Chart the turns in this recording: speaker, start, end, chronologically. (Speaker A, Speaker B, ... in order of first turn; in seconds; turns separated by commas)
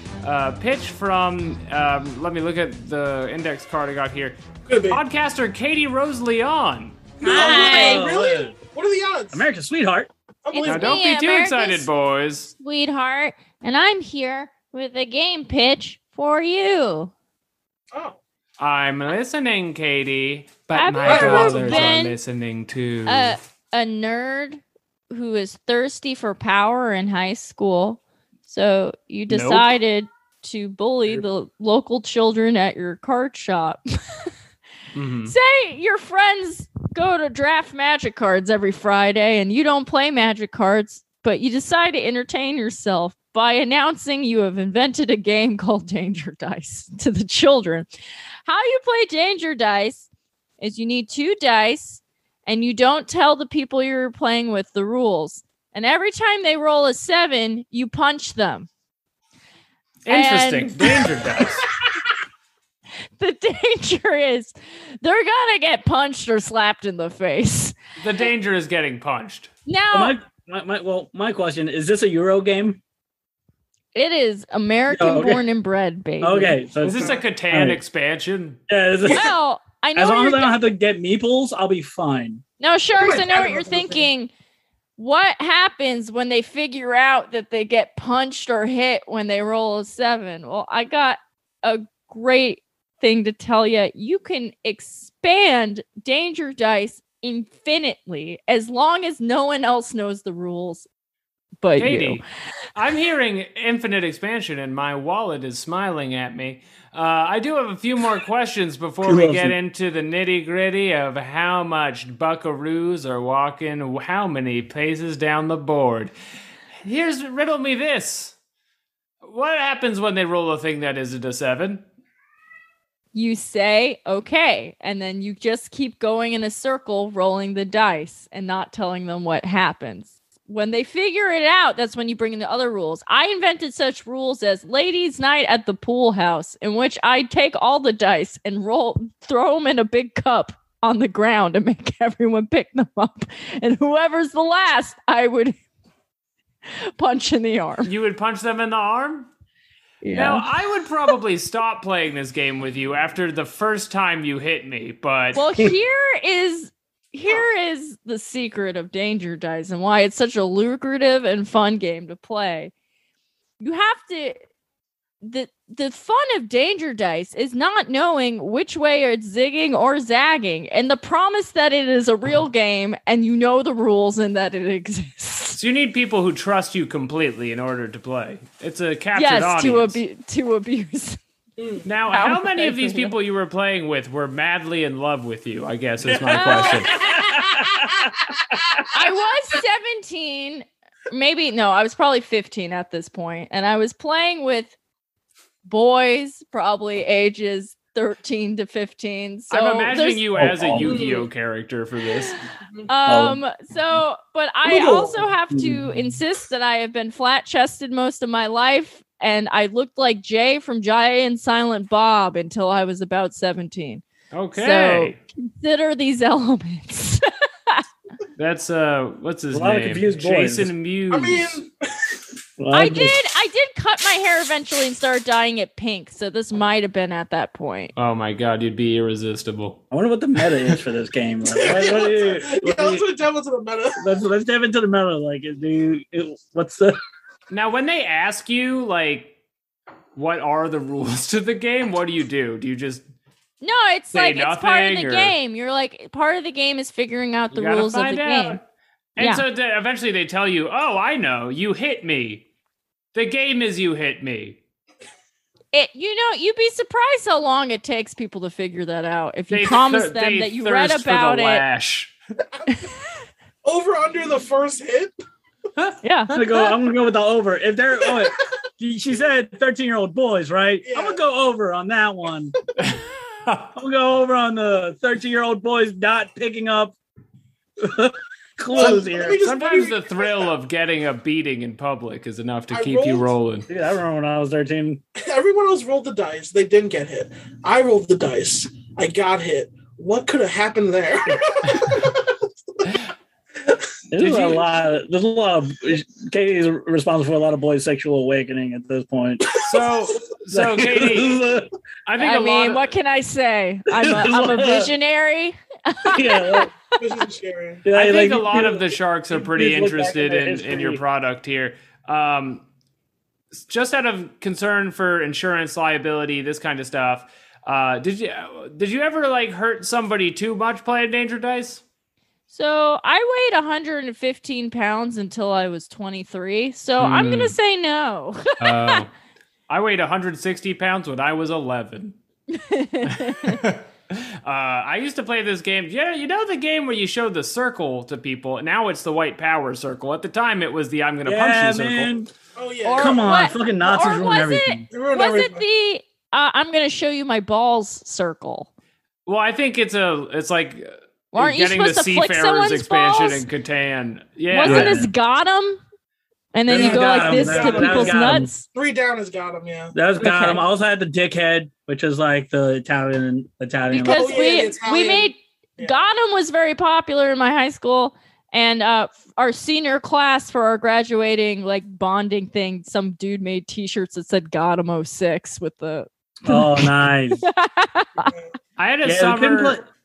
Speaker A: 0.2-4.4, Speaker B: 4.7-5.0, Speaker A: 4.9-7.0, Speaker C: 7.2-8.5, Speaker D: 7.2-8.1, Speaker B: 7.2-9.5, Speaker C: 9.3-10.1, Speaker B: 10.4-10.9, Speaker D: 10.5-11.9, Speaker A: 10.6-12.5, Speaker D: 12.6-17.1, Speaker B: 17.9-18.2, Speaker A: 18.6-23.4, Speaker D: 20.7-22.1, Speaker B: 21.0-21.9, Speaker D: 23.1-33.8, Speaker A: 29.3-29.7, Speaker A: 34.9-35.3, Speaker D: 35.2-47.9, Speaker D: 48.5-50.1, Speaker D: 50.6-58.7, Speaker A: 60.0-61.6, Speaker D: 60.1-61.7, Speaker D: 63.2-67.7, Speaker A: 68.0-69.5, Speaker D: 69.7-70.1, Speaker C: 69.9-72.8, Speaker D: 73.9-76.6, Speaker C: 74.9-75.4, Speaker C: 76.2-77.8, Speaker A: 76.8-78.6, Speaker C: 78.7-79.3, Speaker D: 79.1-80.5, Speaker C: 80.0-82.4, Speaker D: 82.6-84.3, Speaker B: 83.0-84.1, Speaker D: 85.0-100.9, Speaker D: 101.6-102.2, Speaker A: 101.8-102.2, Speaker A: 102.7-116.1, Speaker C: 109.0-109.5, Speaker A: 116.8-118.3, Speaker A: 119.2-121.8, Speaker D: 123.1-145.5, Speaker D: 147.0-147.9, Speaker A: 147.8-149.3, Speaker D: 150.0-150.5, Speaker A: 150.1-155.4, Speaker D: 155.3-162.7, Speaker D: 163.6-164.4, Speaker D: 165.2-175.6, Speaker A: 175.6-180.0, Speaker D: 179.1-181.2, Speaker B: 181.6-181.8, Speaker A: 181.8-186.9, Speaker D: 182.1-183.1, Speaker B: 186.0-186.9, Speaker D: 186.3-187.2, Speaker C: 186.9-188.0, Speaker B: 187.7-188.8, Speaker D: 188.9-194.7, Speaker D: 195.6-201.0, Speaker A: 199.5-202.4, Speaker C: 200.4-201.0, Speaker B: 200.8-201.2, Speaker D: 202.3-217.8, Speaker C: 203.1-203.4, Speaker B: 204.6-205.3, Speaker C: 205.5-205.8, Speaker A: 214.3-215.2, Speaker A: 218.3-221.5, Speaker C: 219.5-220.7, Speaker B: 221.1-222.1, Speaker C: 222.6-223.2, Speaker D: 222.7-227.9, Speaker A: 227.9-229.8, Speaker C: 229.9-233.0, Speaker B: 231.5-234.0, Speaker C: 234.0-237.0, Speaker A: 237.5-239.3, Speaker A: 240.1-243.0, Speaker D: 243.6-248.6, Speaker A: 244.1-245.3, Speaker A: 247.5-248.6, Speaker D: 249.2-249.4, Speaker A: 249.2-252.4, Speaker A: 253.1-254.6, Speaker D: 255.7-261.6, Speaker A: 259.5-262.1, Speaker B: 263.6-265.1, Speaker D: 266.0-266.4, Speaker C: 266.3-272.5, Speaker B: 270.8-271.2, Speaker A: 272.8-273.7, Speaker C: 273.7-276.9, Speaker C: 277.8-279.4, Speaker B: 278.7-280.4, Speaker A: 279.4-283.7, Speaker B: 282.7-283.3, Speaker C: 283.7-285.0, Speaker B: 285.2-292.3, Speaker C: 294.1-299.5, Speaker A: 294.1-294.6, Speaker A: 299.6-301.4, Speaker C: 300.5-301.7, Speaker A: 302.1-302.9, Speaker D: 302.2-306.7, Speaker C: 303.9-304.9, Speaker C: 306.1-306.7, Speaker B: 307.0-307.8, Speaker C: 307.8-311.0, Speaker A: 307.9-312.6, Speaker A: 313.5-321.8, Speaker D: 322.5-329.0, Speaker A: 327.0-327.5, Speaker A: 328.6-329.1, Speaker A: 329.7-332.1, Speaker D: 332.5-333.6, Speaker A: 333.2-342.1, Speaker C: 341.2-342.3, Speaker B: 342.6-343.2, Speaker D: 342.8-348.7, Speaker C: 342.9-344.8, Speaker B: 344.9-345.6, Speaker A: 349.2-355.0, Speaker D: 351.3-353.5, Speaker D: 354.5-355.8, Speaker C: 354.6-355.1, Speaker D: 356.5-358.7, Speaker C: 356.7-358.5, Speaker B: 356.7-360.0, Speaker C: 359.9-364.4, Speaker D: 360.2-360.6, Speaker B: 363.9-365.9, Speaker D: 363.9-376.9, Speaker C: 376.4-377.4, Speaker D: 377.4-378.3, Speaker A: 378.8-379.8, Speaker C: 379.0-379.8